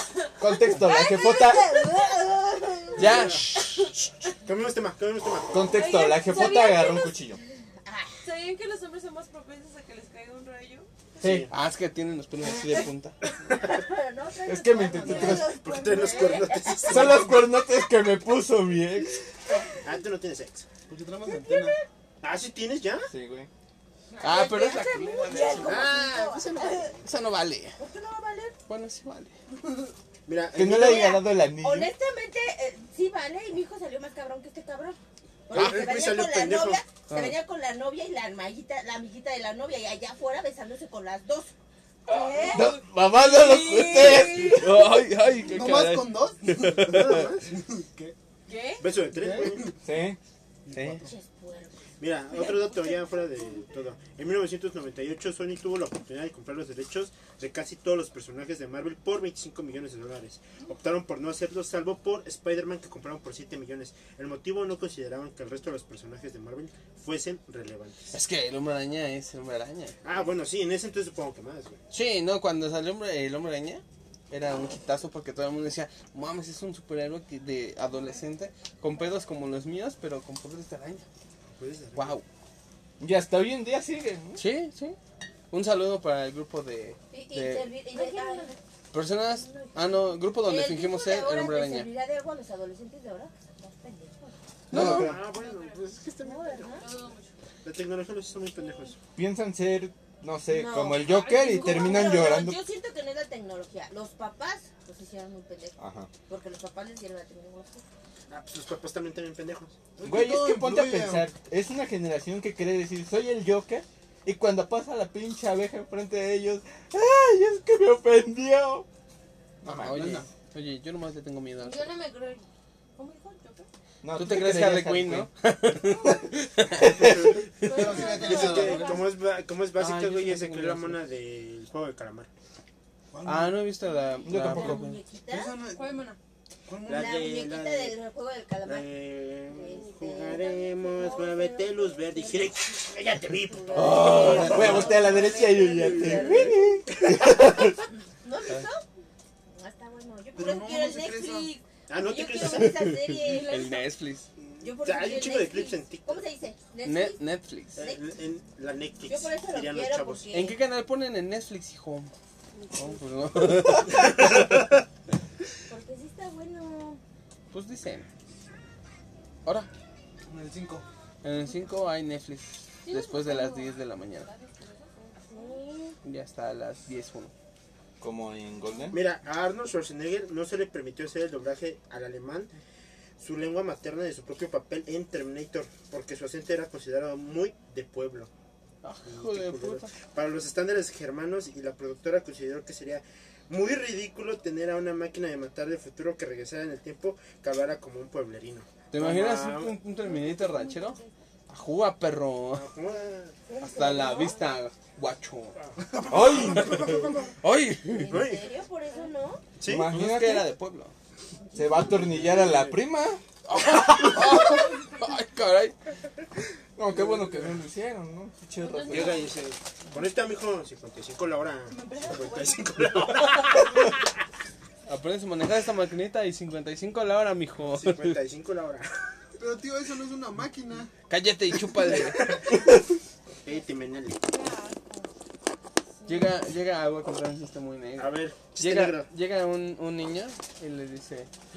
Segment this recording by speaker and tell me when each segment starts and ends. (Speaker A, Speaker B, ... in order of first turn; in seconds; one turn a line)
Speaker A: 0.4-1.8
Speaker B: 0.7-3.4
Speaker C: 3.0-3.5
Speaker D: 3.0-4.0
Speaker C: 4.4-5.8
Speaker A: 5.5-7.4
Speaker E: 5.7-7.2
Speaker B: 7.8-8.2
Speaker E: 8.2-10.9
Speaker C: 11.2-11.5
Speaker A: 11.2-11.5
Speaker D: 11.5-13.2
Speaker B: 12.6-12.8
Speaker B: 13.5-17.0
Speaker C: 13.5-13.8
Speaker A: 14.4-15.6
Speaker C: 15.0-17.4
Speaker A: 16.9-19.2
Speaker C: 19.8-20.7
Speaker F: 20.9-21.8
Speaker B: 21.2-21.8
Speaker C: 22.2-23.1
Speaker A: 23.1-23.5
Speaker E: 24.2-25.5
Speaker B: 24.2-27.0
Speaker D: 24.2-25.8
Speaker C: 25.6-27.1
Speaker D: 27.0-27.8
Speaker B: 27.8-28.5
Speaker D: 28.7-29.3
Speaker C: 30.2-31.2
Speaker A: 30.5-31.9
Speaker B: 30.7-41.5
Speaker C: 35.5-36.8
Speaker D: 37.1-37.4
Speaker B: 42.1-42.8
Speaker A: 42.5-44.7
Speaker E: 43.2-44.3
Speaker B: 43.3-44.8
Speaker D: 44.5-47.3
Speaker F: 45.4-48.1
Speaker C: 46.9-47.5
Speaker E: 48.5-48.8
Speaker C: 48.8-49.7
Speaker F: 49.1-49.8
Speaker A: 49.8-50.2
Speaker F: 50.7-51.1
Speaker D: 50.7-51.0
Speaker B: 51.0-52.4
Speaker C: 52.0-68.2
Speaker E: 52.4-52.9
Speaker D: 68.1-70.0
Speaker C: 70.0-71.8
Speaker D: 71.9-81.0
Speaker C: 81.5-82.2
Speaker D: 81.9-82.2
Speaker A: 83.0-84.4
Speaker D: 84.3-85.0
Speaker D: 85.5-87.7
Speaker B: 87.1-88.5
Speaker E: 87.9-88.5
Speaker D: 88.9-91.9
Speaker B: 89.1-94.3
Speaker D: 94.7-95.2
Speaker A: 94.7-95.2
Speaker C: 94.7-96.8
Speaker E: 95.3-95.8
Speaker B: 96.2-96.9
Speaker E: 96.6-97.3
Speaker C: 97.6-99.0
Speaker A: 99.1-102.6
Speaker B: 100.5-107.8
Speaker E: 101.0-102.3
Speaker A: 105.8-106.1
Speaker C: 108.3-109.8
Speaker F: 110.0-111.3
Speaker A: 110.0-118.9
Speaker A: 119.6-120.2
Speaker D: 119.7-121.9
Speaker F: 119.8-120.3
Speaker E: 121.6-122.5
Speaker E: 123.0-123.7
Speaker A: 124.0-125.3
Speaker D: 124.1-127.3
Speaker A: 126.8-127.3
Speaker E: 127.6-129.1
Speaker F: 127.6-129.0
Speaker C: 128.0-132.3
Speaker D: 129.8-131.0
Speaker F: 133.1-133.7
Speaker D: 133.2-135.0
Speaker A: 134.2-134.9
Speaker B: 134.4-135.5
Speaker F: 135.3-136.1
Speaker E: 135.7-136.2
Speaker F: 136.7-137.4
Speaker C: 136.8-138.0
Speaker B: 136.9-142.7
Speaker C: 138.6-146.5
Speaker B: 143.5-146.6
Speaker A: 143.7-147.8
Speaker D: 144.2-144.5
Speaker B: 148.2-148.8
Speaker B: 149.5-153.9
Speaker F: 150.3-151.6
Speaker C: 151.9-153.0
Speaker D: 152.5-154.3
Speaker C: 154.4-156.2
Speaker B: 154.6-157.2
Speaker D: 156.8-157.8
Speaker B: 157.8-158.0
Speaker C: 157.8-160.3
Speaker B: 159.0-160.6
Speaker D: 160.3-162.1
Speaker E: 162.5-162.9
Speaker D: 162.7-164.4
Speaker B: 165.7-167.0
Speaker D: 167.5-168.1
Speaker D: 169.4-169.7
Speaker F: 170.3-170.8
Speaker D: 171.2-174.3
Speaker E: 172.8-175.6
Speaker B: 175.3-176.0
Speaker D: 176.0-177.3
Speaker A: 178.0-179.0
Speaker C: 178.9-182.5
Speaker C: 183.2-188.3
Speaker D: 188.8-189.9
Speaker C: 189.0-199.8
Speaker D: 198.9-202.7
Speaker E: 200.0-201.1
Speaker C: 202.5-203.4
Speaker B: 203.4-204.5
Speaker D: 203.6-205.6
Speaker F: 205.8-207.1
Speaker A: 206.1-206.9
Speaker D: 206.3-208.2
Speaker B: 207.9-209.4
Speaker C: 208.1-208.5
Speaker E: 208.9-209.1
Speaker C: 209.6-209.9
Speaker A: 209.6-210.5
Speaker D: 209.9-210.9
Speaker B: 211.5-211.9
Speaker A: 211.5-213.2
Speaker C: 212.1-212.8
Speaker D: 213.5-215.7
Speaker A: 216.8-219.3
Speaker E: 218.6-219.3
Speaker C: 218.9-223.9
Speaker E: 221.7-223.7
Speaker D: 224.8-228.2
Speaker C: 227.7-229.0
Speaker F: 229.4-230.9
Speaker D: 231.1-232.3
Speaker C: 231.9-232.6
Speaker C: 233.4-234.2
Speaker E: 234.2-235.1
Speaker E: 236.0-236.3
Speaker D: 236.1-241.3
Speaker C: 238.0-239.1